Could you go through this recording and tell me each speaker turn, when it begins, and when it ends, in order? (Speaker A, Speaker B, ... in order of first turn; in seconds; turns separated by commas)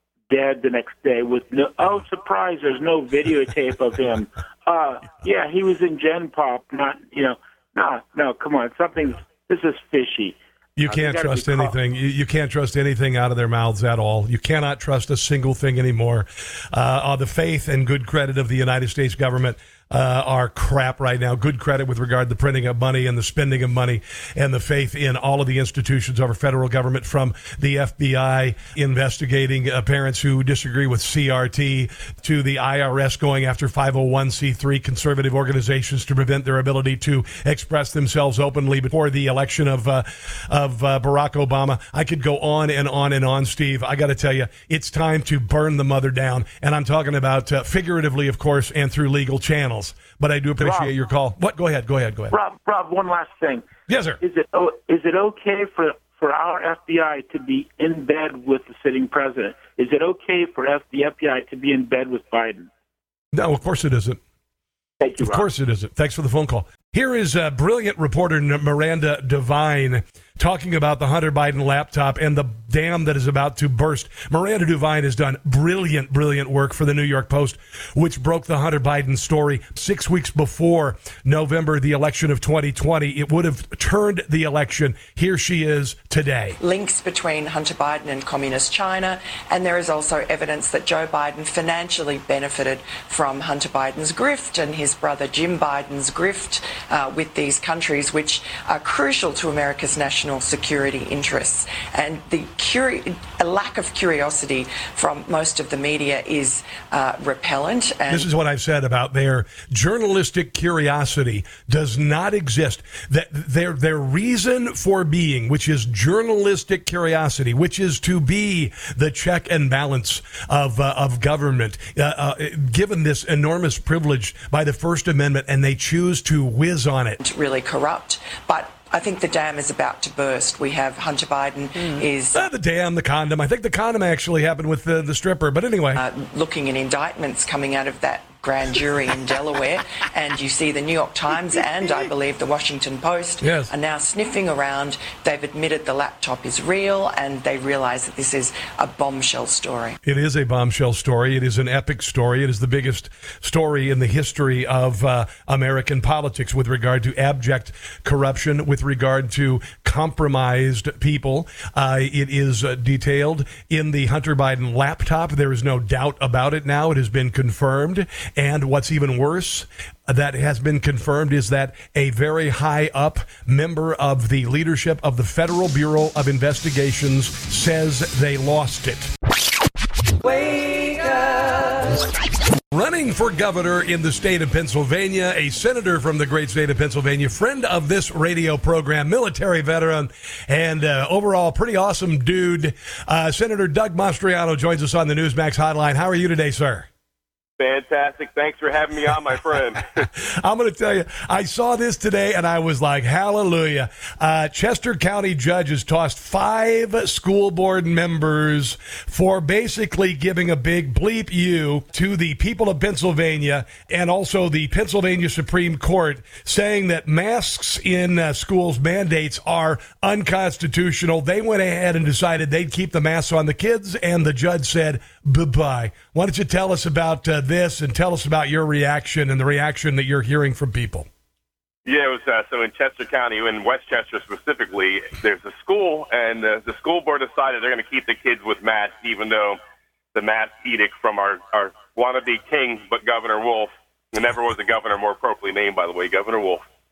Speaker A: 0.3-11.8, Speaker B: 10.8-52.3, Speaker A: 50.6-50.9, Speaker A: 52.3-53.7, Speaker B: 53.9-54.2, Speaker A: 54.2-62.7, Speaker B: 63.3-64.2, Speaker A: 65.0-65.5, Speaker B: 65.2-86.6, Speaker C: 86.6-108.3, Speaker B: 108.1-127.2, Speaker C: 127.2-132.5, Speaker B: 132.3-136.0, Speaker C: 135.9-150.0, Speaker B: 143.4-143.7, Speaker B: 150.0-179.1, Speaker B: 182.7-196.9, Speaker D: 197.6-200.0, Speaker B: 200.1-231.1, Speaker D: 231.8-239.6, Speaker D: 240.1-246.6